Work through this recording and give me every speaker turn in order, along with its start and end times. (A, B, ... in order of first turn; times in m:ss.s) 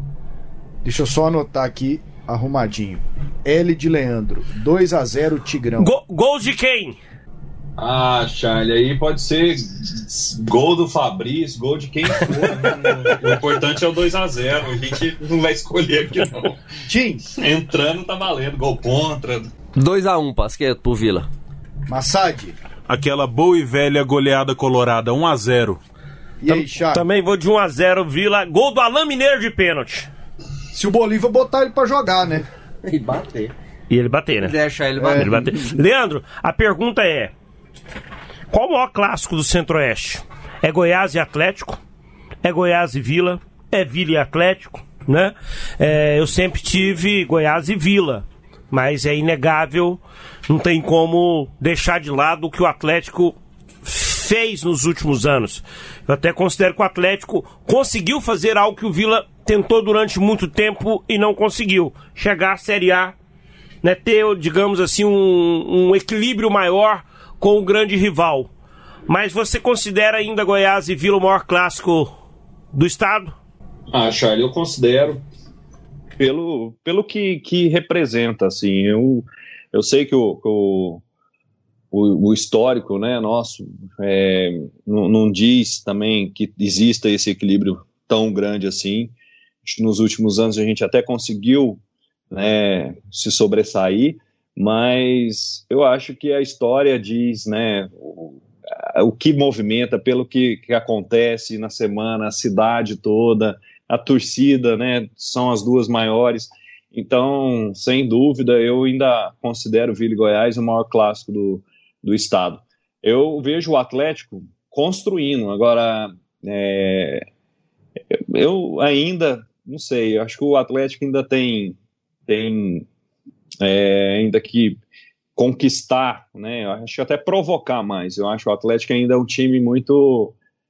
0:00.8-0:05.9 A
0:05.8-0:07.0 B
0:07.8-0:16.6 C
0:16.8-0:17.2 A
0:17.3-0:19.5 C
0:19.8-0:21.3 D
0:21.9-0:22.6 A
0:22.9-0:25.8 E
0:26.4-0:27.0 A
0:26.5-0:30.1 B
0:30.7-0:32.5 A
0:32.8-0:33.5 D
0:33.9-0:34.6 B
0:34.4-0:35.8 D
0:35.0-0:35.3 A
0:35.1-0:37.3 B
0:38.5-0:41.8 B
0:42.4-1:03.2 B
1:03.8-1:08.5 B
1:09.1-1:12.1 B
1:12.7-1:13.4 B
1:13.9-1:15.2 C
1:16.2-1:21.0 C
1:21.9-1:29.1 C
1:29.6-1:31.8 C
1:32.3-1:57.2 C
1:58.1-2:01.8 C
2:02.3-2:02.9 C
2:03.6-2:04.8 C
2:05.4-2:10.4 C